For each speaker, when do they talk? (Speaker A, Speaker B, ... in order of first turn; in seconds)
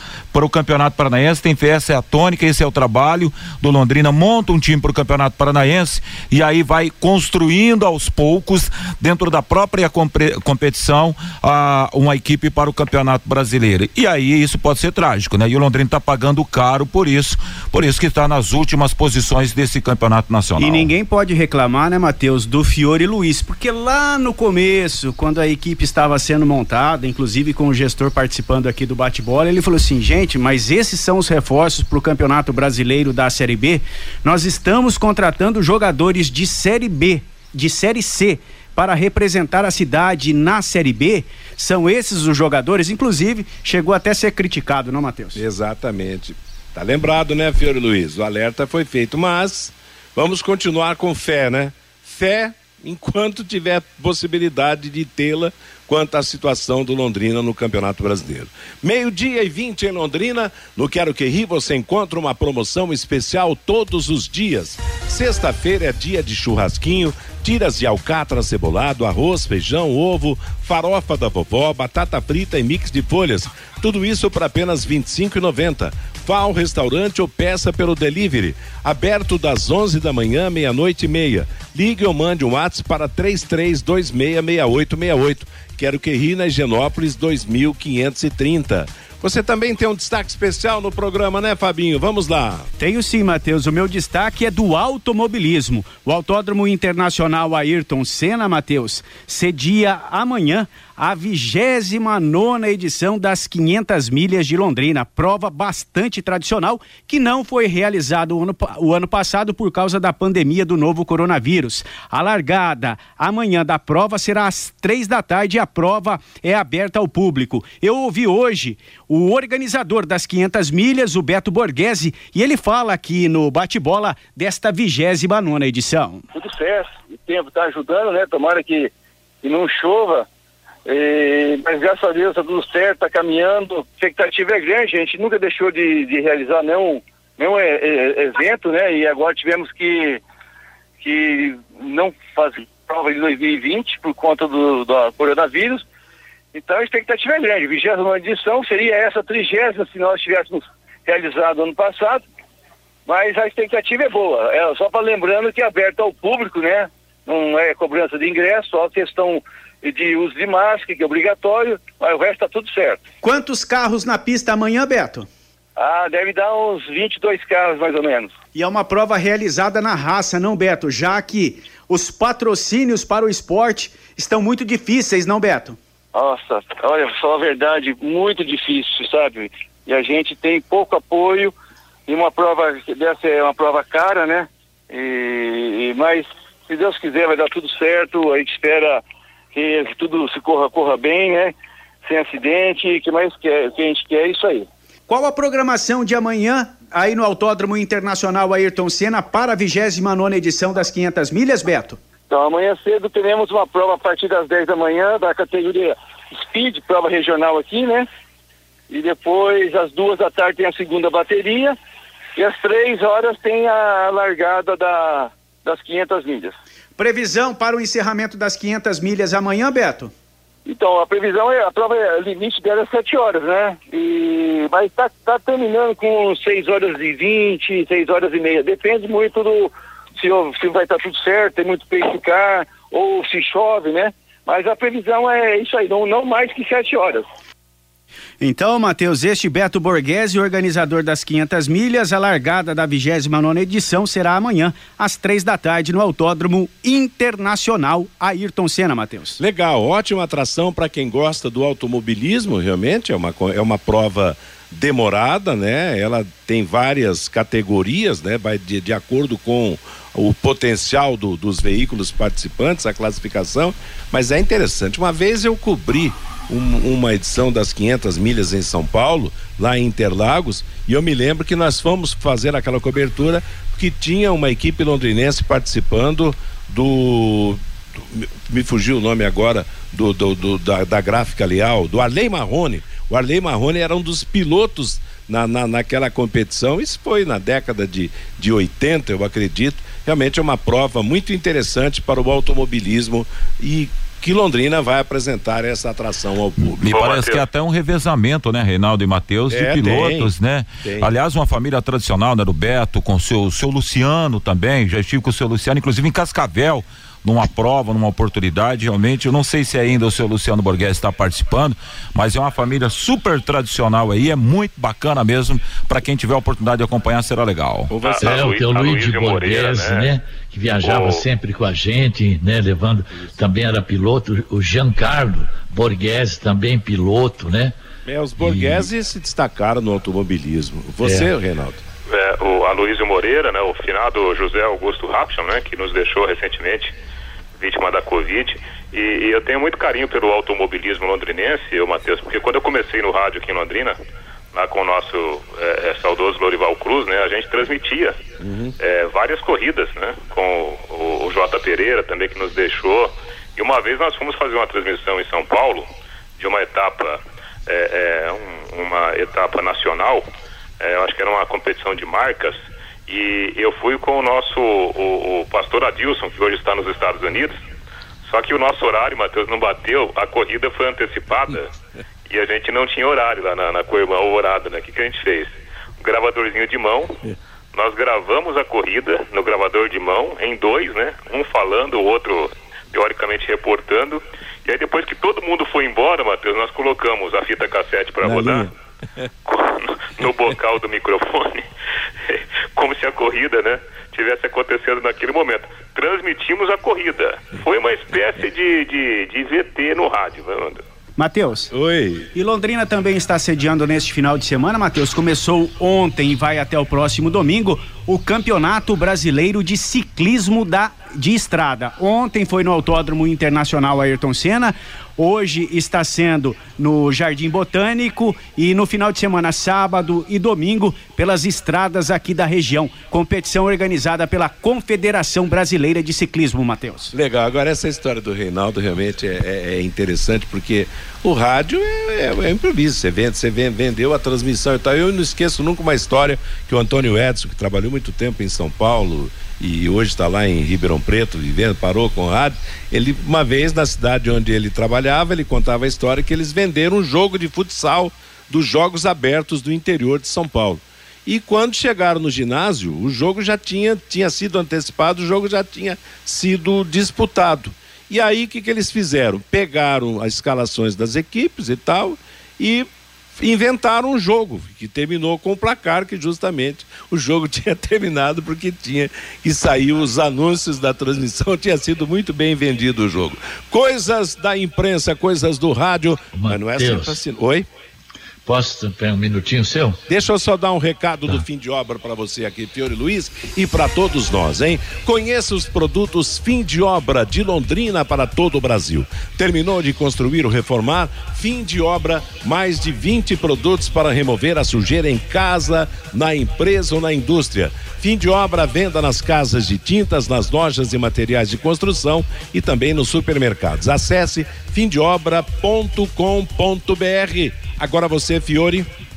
Speaker A: 0.3-20.9, 296.6-317.9
Speaker B: 20.6-45.4, 92.8-126.2, 163.2-165.3, 168.5-175.8, 195.1-202.0, 217.0-220.1, 238.4-249.4, 401.2-401.7, 402.3-427.1
Speaker C: 45.3-92.7, 249.4-296.8, 299.5-300.3, 300.8-301.1, 317.9-318.3, 328.1-331.8, 348.4-348.7, 388.2-389.3, 401.7-402.3, 427.1-477.7, 480.1-508.9
Speaker D: 126.3-128.9, 129.4-130.3, 130.8-140.2, 141.0-145.8, 146.5-152.2, 153.1-163.0, 165.8-168.3, 176.1-181.5, 182.1-194.7, 202.3-208.1, 208.9-211.8, 212.3-216.6, 220.7-237.3
Speaker E: 296.9-297.4, 318.0-320.1, 320.8-321.2, 332.1-336.9, 337.6-344.0, 344.5-348.2, 348.8-360.2, 360.8-367.6, 368.2-371.7, 372.3-377.2, 377.7-388.7, 389.4-391.6, 392.2-400.8
Speaker F: 318.2-327.7, 328.4-328.9, 331.0-331.3, 476.3-477.2, 478.4-480.0